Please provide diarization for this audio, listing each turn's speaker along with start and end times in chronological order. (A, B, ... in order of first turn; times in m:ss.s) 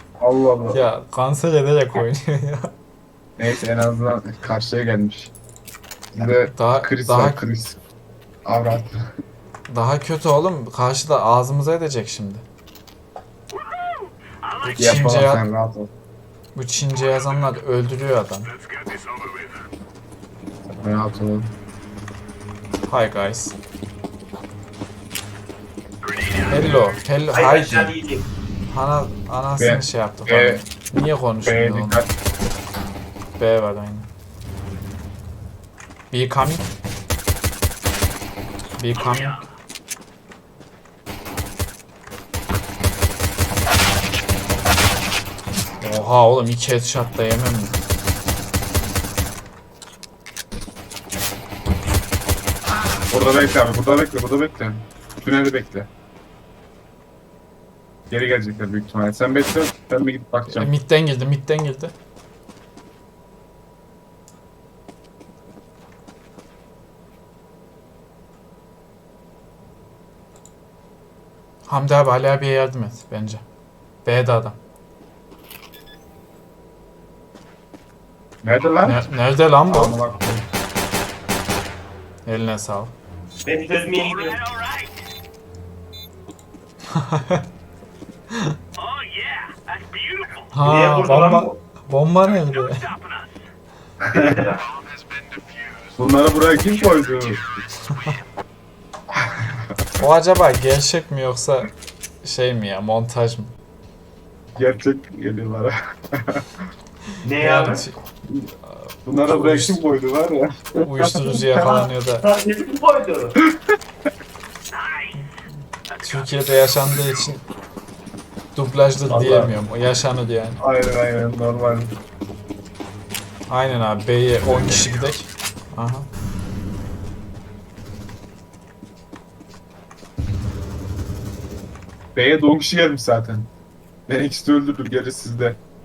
0:00.2-0:00.8 A
0:00.7-0:02.7 B
0:03.4-0:05.3 A
0:06.1-0:07.8 A
0:06.5-0:07.4 B
0:08.4-0:09.0 A
0:09.7-0:12.4 B
0:13.5-0:14.9 C
0:14.6-0:15.4 B
0:14.8-0:15.9 A
0:16.5-0:18.5 B
0:18.5-0:19.7 C
0:20.7-0:21.5 A
0:22.9-0:23.6 B
0:26.0-0:26.8 C
0:26.5-0:27.9 B
0:27.3-0:28.3 D
0:28.7-0:32.0 B
0:29.6-0:30.6 A
0:31.4-0:32.1 A
0:33.4-0:34.1 B
0:36.1-0:36.7 B
0:38.8-0:39.4 B
0:38.9-0:39.4 C
0:45.8-0:47.8 B
0:53.1-0:55.9 A
0:58.1-1:00.7 A
1:00.5-1:01.9 B
1:11.7-1:13.4 B
1:14.0-1:14.6 B
1:18.4-1:19.1 A
1:18.8-1:20.0 B
1:19.6-1:20.5 A
1:22.2-1:22.9 B
1:23.4-1:24.4 D
1:23.9-1:25.0 C
1:26.9-1:27.4 B
1:28.8-1:30.5 C
1:30.5-1:32.8 B
1:30.6-1:31.6 D
1:32.3-1:33.4 C
1:34.0-1:34.5 A
1:34.1-1:34.6 D
1:36.0-1:37.4 A
1:39.1-1:39.7 A
1:40.0-1:41.7 B
1:42.2-1:43.5 B
1:44.5-1:46.5 A
1:47.2-1:47.8 D
1:47.4-1:48.0 B
1:48.6-1:49.8 B
1:49.0-1:51.8 A
1:50.8-1:52.3 B
1:52.2-1:53.4 D
1:53.4-1:53.8 A
1:54.7-1:55.3 C
1:55.9-1:56.3 C
1:56.0-1:57.4 B
1:58.5-2:00.6 B
1:59.1-1:59.5 A
2:00.6-2:01.9 A
2:03.5-2:06.1 B
2:12.1-2:13.5 A
2:14.1-2:15.6 A